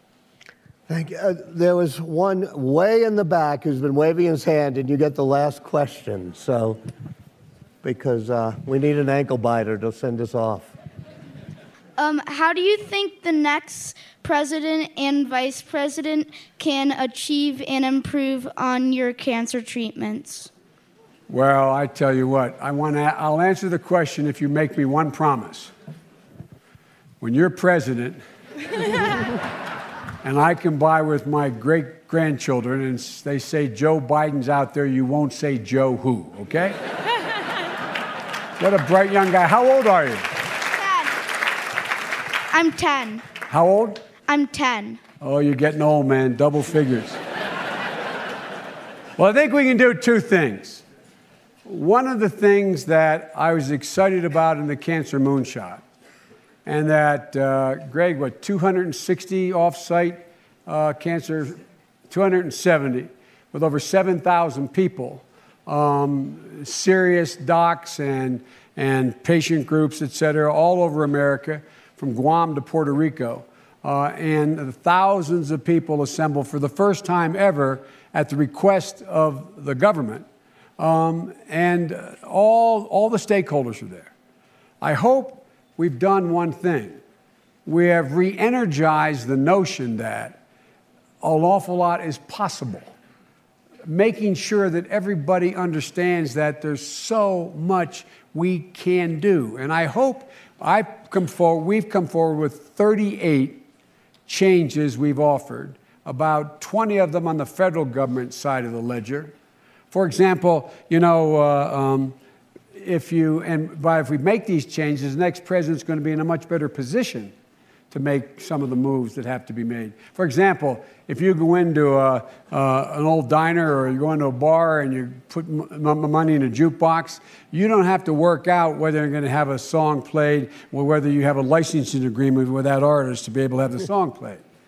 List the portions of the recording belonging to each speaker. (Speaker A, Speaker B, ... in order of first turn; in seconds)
Speaker A: 0.9-6.8, 7.8-10.7
Speaker B: 12.0-20.5, 40.7-41.1, 42.5-43.2, 44.3-45.0
Speaker C: 21.3-25.7, 27.2-28.2, 30.2-36.8, 38.6-40.3, 43.5-44.0, 45.2-47.2, 49.2-50.8, 51.6-55.8, 56.6-80.3, 80.8-84.1, 84.8-87.0, 87.6-90.4, 91.2-92.9, 93.8-103.6, 104.2-109.3, 109.9-112.2, 112.7-117.3, 117.9-134.4